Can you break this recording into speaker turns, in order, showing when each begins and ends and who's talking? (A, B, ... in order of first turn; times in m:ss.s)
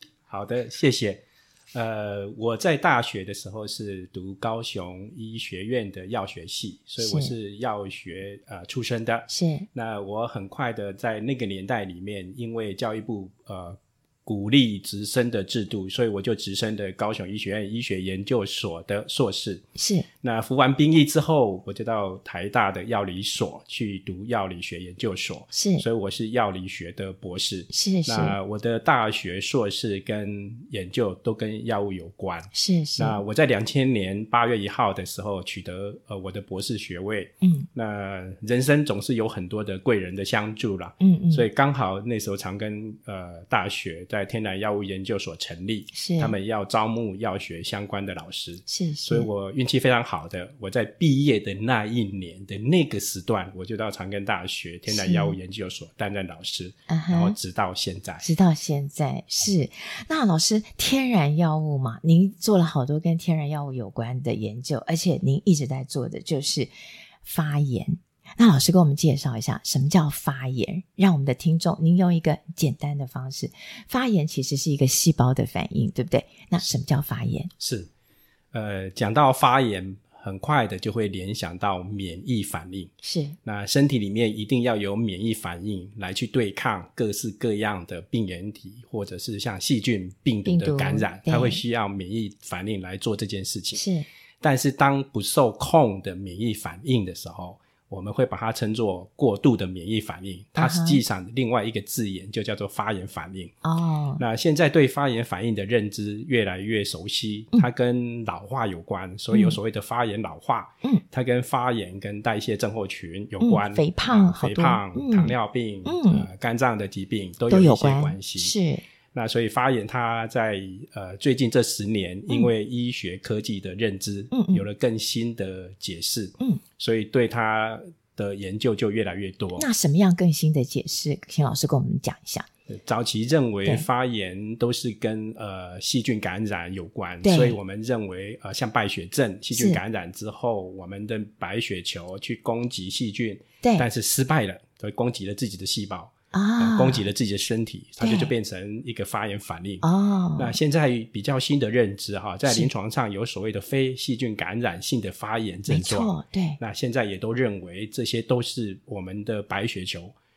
0:00.3-0:19.6 A
0:07.0-0:07.3 B
0:09.3-0:09.7 B
0:19.8-0:20.1 B
0:20.2-0:58.2 A
0:25.5-0:25.8 B
0:27.7-0:28.4 B
0:32.5-0:33.2 B
0:37.4-0:37.7 B
0:41.0-0:41.5 B
0:45.9-0:46.4 B
0:48.7-0:49.3 B
0:54.9-0:55.4 B
0:56.9-0:57.4 B
0:58.2-1:06.7 B
1:07.2-1:17.5 B
1:17.6-1:17.9 A
1:18.5-1:22.9 A
1:23.0-1:23.4 B
1:23.4-1:33.8 A
1:30.5-1:31.6 B
1:33.7-1:34.1 B
1:34.4-1:43.5 A
1:40.6-1:41.0 B
1:43.6-1:44.2 B
1:44.2-1:58.5 A
1:49.3-1:49.6 B
1:53.4-1:56.3 B
1:57.5-1:58.8 B
1:59.1-2:09.7 A
2:04.3-2:04.6 B
2:09.6-2:12.5 B
2:12.7-2:29.8 A
2:17.2-2:17.6 B
2:19.5-2:19.8 B
2:26.3-2:27.1 B
2:28.0-2:28.3 B
2:29.8-2:30.6 B
2:30.4-2:40.1 A
2:32.4-2:32.7 B
2:35.7-2:36.6 B